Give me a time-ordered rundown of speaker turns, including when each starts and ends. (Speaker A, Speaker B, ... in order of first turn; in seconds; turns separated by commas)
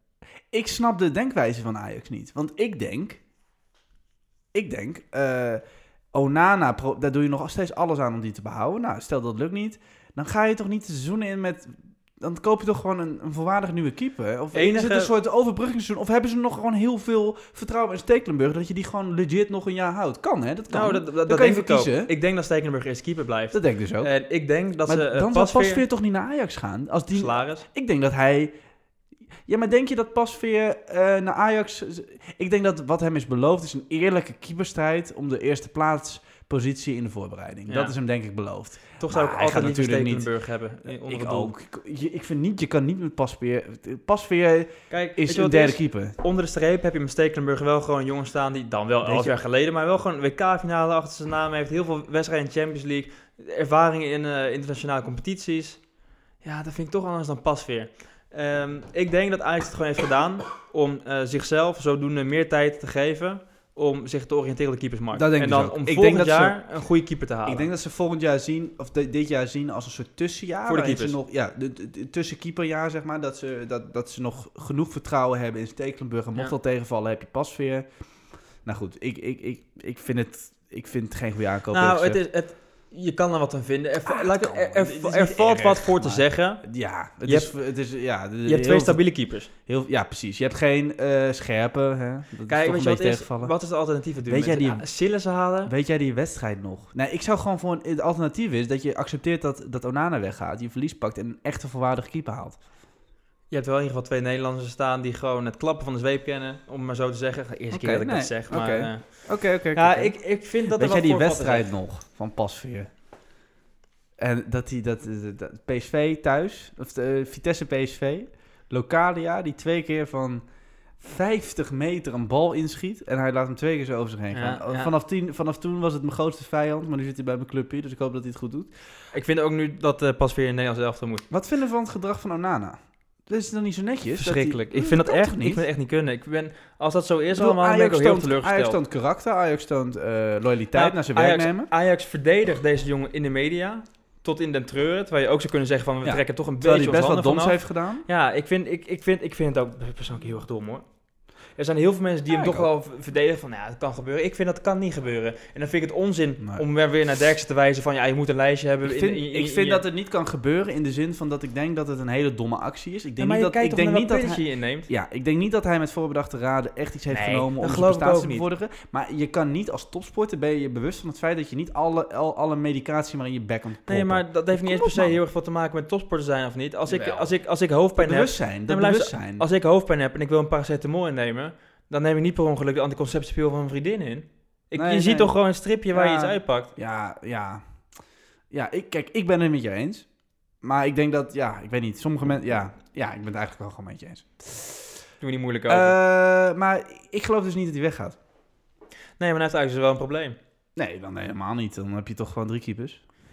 Speaker A: 0.5-3.2, Speaker A: 4.5-5.6, Speaker A: 6.1-22.1, Speaker B: 14.5-15.1, Speaker B: 20.7-25.8, Speaker A: 23.5-24.1, Speaker A: 24.9-28.5, Speaker B: 27.1-27.7, Speaker A: 29.5-40.3, Speaker B: 37.7-38.0, Speaker B: 39.0-41.5, Speaker A: 40.9-46.2, Speaker B: 44.9-55.8, Speaker A: 49.0-49.4, Speaker B: 56.4-67.7, Speaker A: 65.1-66.6, Speaker A: 67.5-77.9, Speaker B: 70.7-71.2, Speaker A: 78.7-82.2, Speaker B: 81.7-86.6, Speaker A: 84.1-89.0, Speaker B: 87.3-87.5, Speaker B: 88.5-89.5, Speaker A: 89.7-93.5, Speaker B: 92.5-95.7, Speaker A: 94.3-94.8, Speaker A: 95.7-102.6, Speaker B: 103.5-111.7, Speaker A: 107.7-112.9, Speaker A: 114.2-120.4, Speaker A: 121.0-128.7, Speaker B: 124.3-124.9, Speaker B: 129.1-131.2, Speaker A: 131.3-135.6, Speaker B: 134.1-138.8, Speaker A: 137.3-141.7, Speaker B: 140.7-150.8, Speaker A: 146.0-148.1, Speaker B: 151.6-159.8, Speaker A: 152.3-152.7, Speaker A: 158.8-175.2, Speaker B: 163.2-164.9, Speaker B: 167.1-168.5, Speaker B: 173.9-186.7, Speaker A: 176.9-177.3, Speaker A: 178.0-179.5, Speaker A: 184.7-185.3, Speaker A: 185.9-187.6, Speaker A: 188.5-190.1, Speaker A: 190.6-194.9, Speaker B: 195.2-196.0, Speaker A: 195.7-198.2, Speaker B: 199.2-200.4, Speaker A: 200.8-203.0